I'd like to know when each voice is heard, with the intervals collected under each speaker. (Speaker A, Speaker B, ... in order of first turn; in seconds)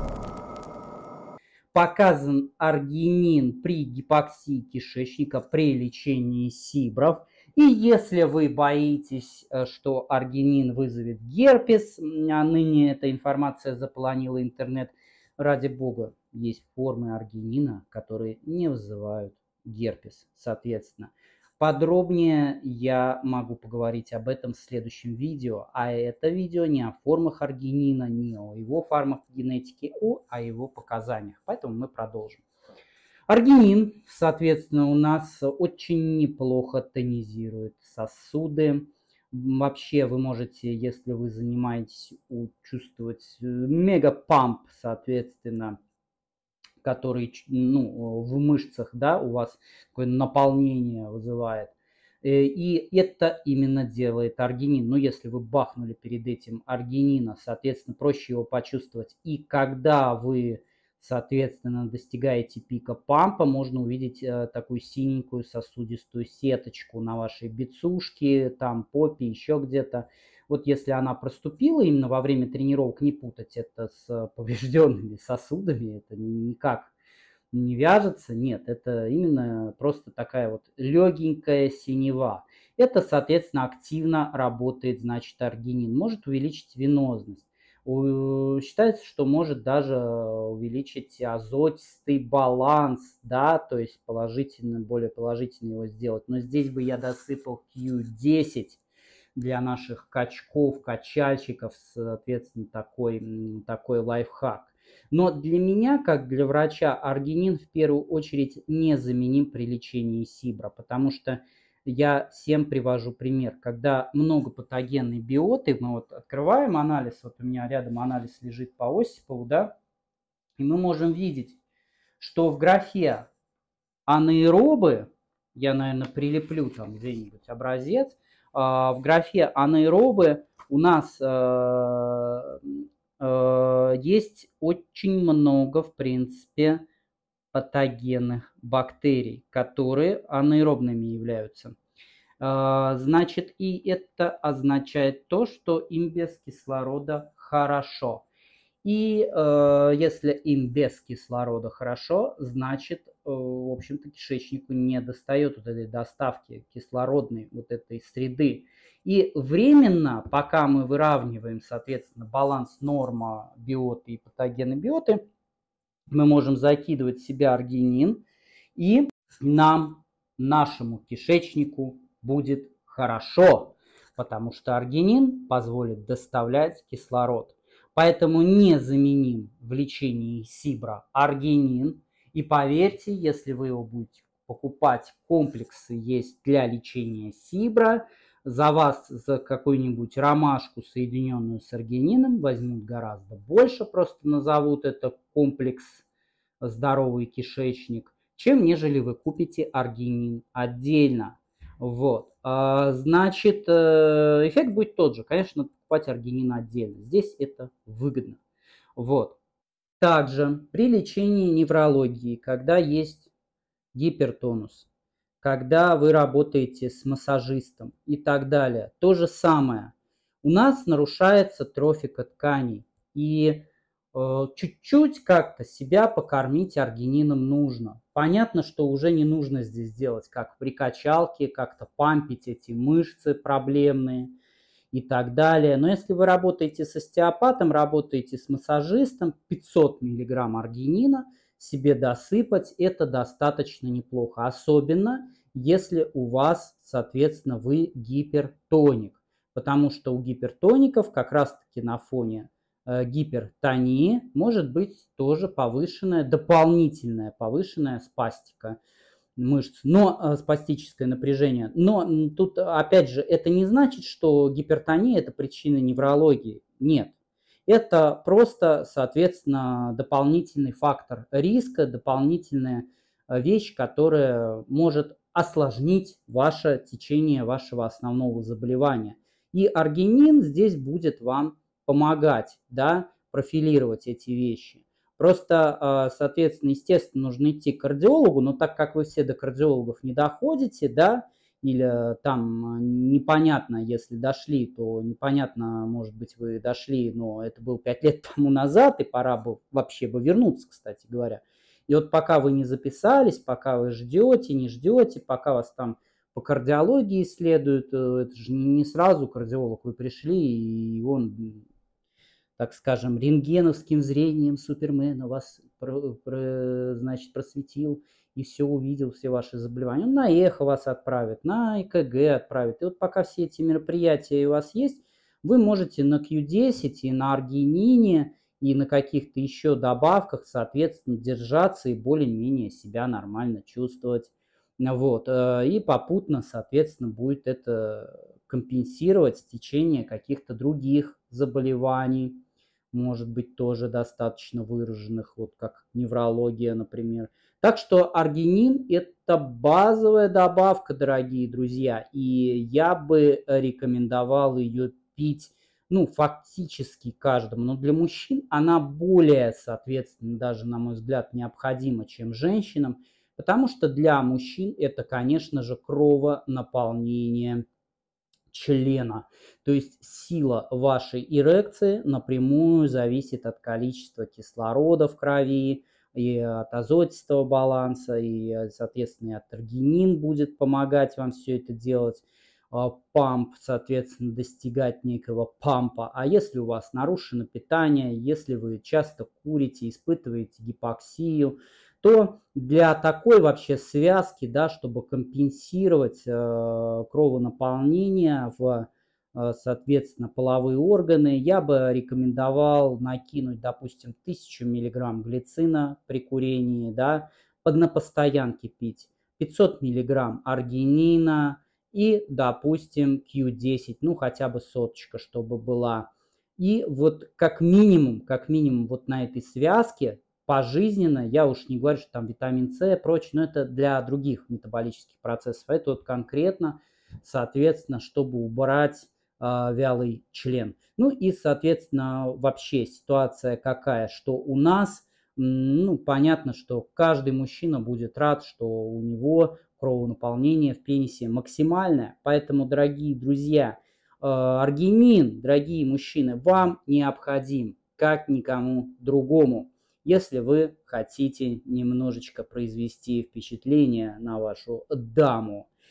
Speaker A: 1.7-32.4, 33.3-45.8, 46.8-76.9, 77.5-98.8, 99.3-119.7, 120.6-121.6, 122.2-123.3, 124.1-136.8, 137.5-141.8, 142.4-148.3, 148.8-165.2, 166.1-168.2, 168.8-196.1, 196.6-208.4, 209.0-209.4, 210.0-213.3, 213.9-214.9, 215.4-234.3, 234.9-258.8, 259.4-267.2, 267.7-311.7, 312.6-367.6, 368.5-455.7